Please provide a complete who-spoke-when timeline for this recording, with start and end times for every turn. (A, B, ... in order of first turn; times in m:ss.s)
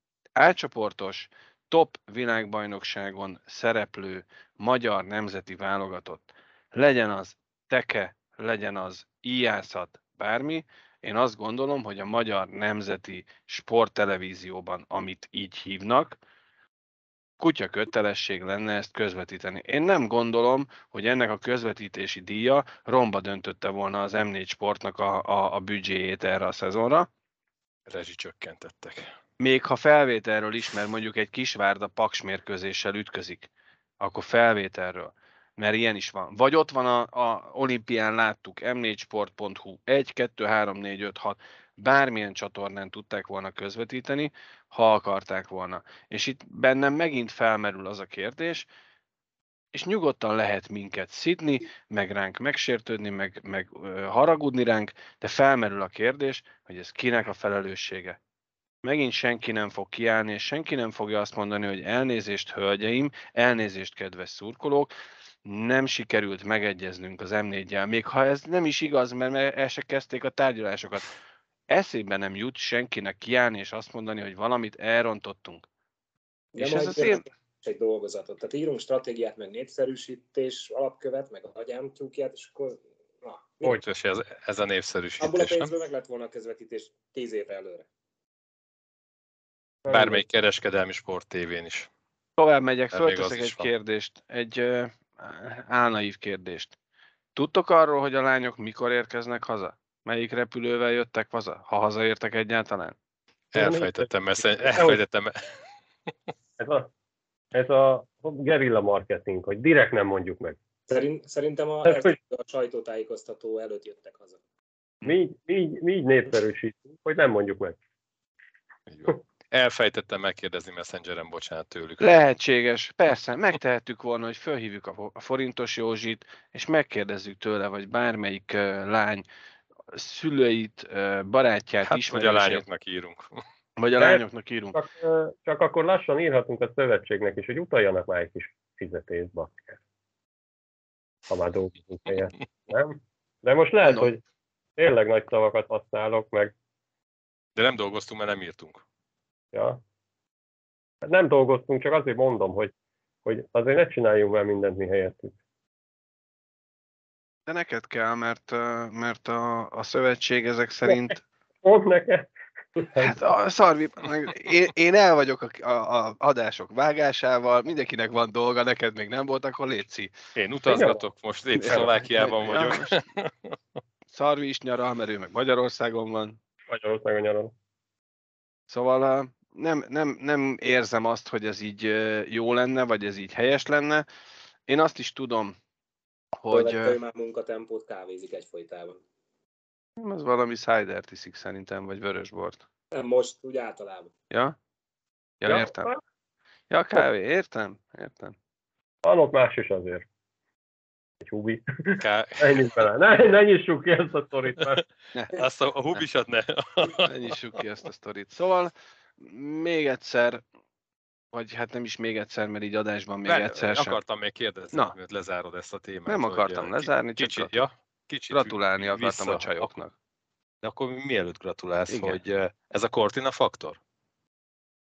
0:00.4-0:16.2 A
0:17.4-0:27.1 A
0:27.9-0:29.1 B
0:29.4-0:33.5 A
0:34.0-0:48.7 A
0:49.7-0:58.2 A
0:58.8-1:04.9 A
1:05.4-1:11.1 A
1:11.7-1:15.6 A
1:16.5-1:23.8 C
1:16.6-1:17.2 A
1:23.7-1:25.7 B
1:25.2-1:27.9 C
1:29.8-1:30.2 D
1:29.9-1:31.9 B
1:32.4-1:36.7 A
1:32.9-1:33.7 B
1:37.3-1:43.0 A
1:43.5-1:45.5 B
1:43.5-1:45.0 D
1:46.6-1:46.9 D
1:47.5-1:50.6 D
1:50.9-1:54.4 C
1:51.8-1:52.1 D
1:55.0-1:57.8 D
1:58.9-2:02.1 B
2:02.0-2:09.2 A
2:09.9-2:12.6 A
2:11.9-2:13.4 B
2:13.8-2:14.8 A
2:14.0-2:14.2 D
2:14.7-2:19.8 D
2:21.3-2:24.2 D
2:24.8-2:26.5 D
2:27.6-2:28.8 B
2:29.5-2:29.8 D
2:31.0-2:32.7 D
2:33.2-2:35.3 D
2:37.5-2:41.2 A
2:41.6-2:43.2 D
2:43.0-2:50.1 A
2:50.4-2:53.3 B
2:50.7-2:51.0 D
2:51.6-2:53.0 A
2:54.1-2:56.4 A
2:56.7-2:57.5 D
2:58.7-3:04.0 A
3:04.7-3:05.6 A
3:06.4-3:07.0 A
3:06.5-3:09.0 C
3:10.0-3:12.6 A
3:12.9-3:14.1 C
3:14.3-3:14.6 A
3:15.4-3:15.9 A
3:15.4-3:16.0 D
3:16.7-3:18.3 A
3:19.0-3:20.0 D
3:21.2-3:24.8 D
3:22.0-3:22.8 B
3:25.3-3:27.3 B
3:27.1-3:30.4 A
3:31.3-3:34.0 A
3:33.3-3:39.7 B
3:36.1-3:37.5 A
3:38.3-3:39.9 A
3:40.6-3:43.8 B
3:41.9-3:42.2 A